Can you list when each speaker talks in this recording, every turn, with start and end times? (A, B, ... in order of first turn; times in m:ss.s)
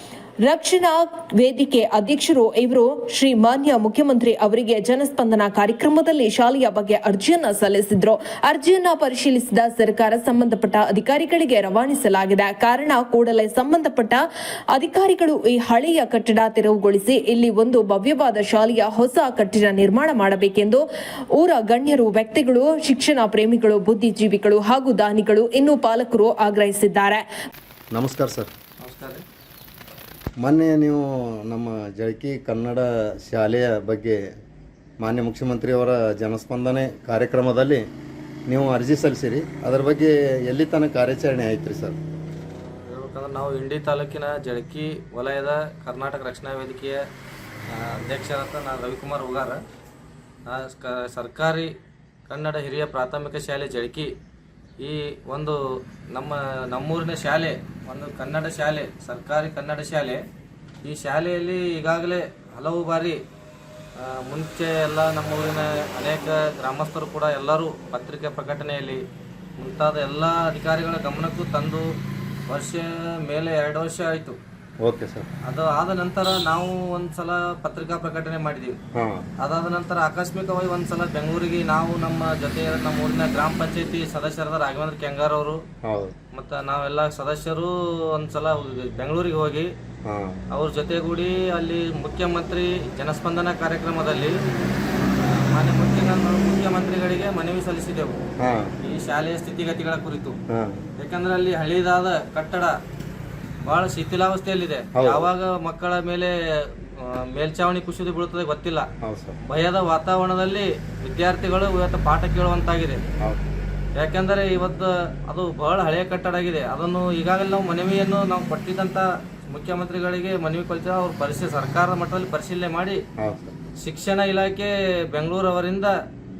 0:00.4-0:14.2 A
0:14.7-0:20.8 A
0:21.4-0:27.2 A
0:27.9-0:28.5 B
0:28.8-0:29.2 C
0:30.4-0:34.2 B
0:35.0-0:37.8 B
0:38.5-0:42.0 B
0:42.5-0:47.0 C
0:47.7-0:49.6 C
0:50.5-0:51.7 C
0:52.3-0:54.1 C
0:54.8-0:55.6 C
0:56.1-1:00.2 C
1:00.8-1:03.2 C
1:04.2-1:09.0 C
1:09.6-1:11.8 C
1:12.5-1:14.4 C
1:14.8-1:15.3 B
1:15.5-1:18.8 C
1:18.9-1:19.3 B
1:19.4-1:25.6 C
1:25.8-1:26.2 B
1:26.3-1:29.7 C
1:30.0-1:30.4 B
1:30.5-1:34.3 C
1:35.0-1:38.2 C
1:38.4-1:38.7 B
1:38.8-1:40.4 C
1:40.5-1:40.8 B
1:41.0-1:42.7 C
1:43.6-1:48.8 C
1:45.0-1:45.3 B
1:49.0-1:49.4 B
1:49.5-1:53.0 C
1:53.2-1:53.4 B
1:54.0-2:03.0 C
2:03.2-2:03.5 B
2:03.8-2:05.9 C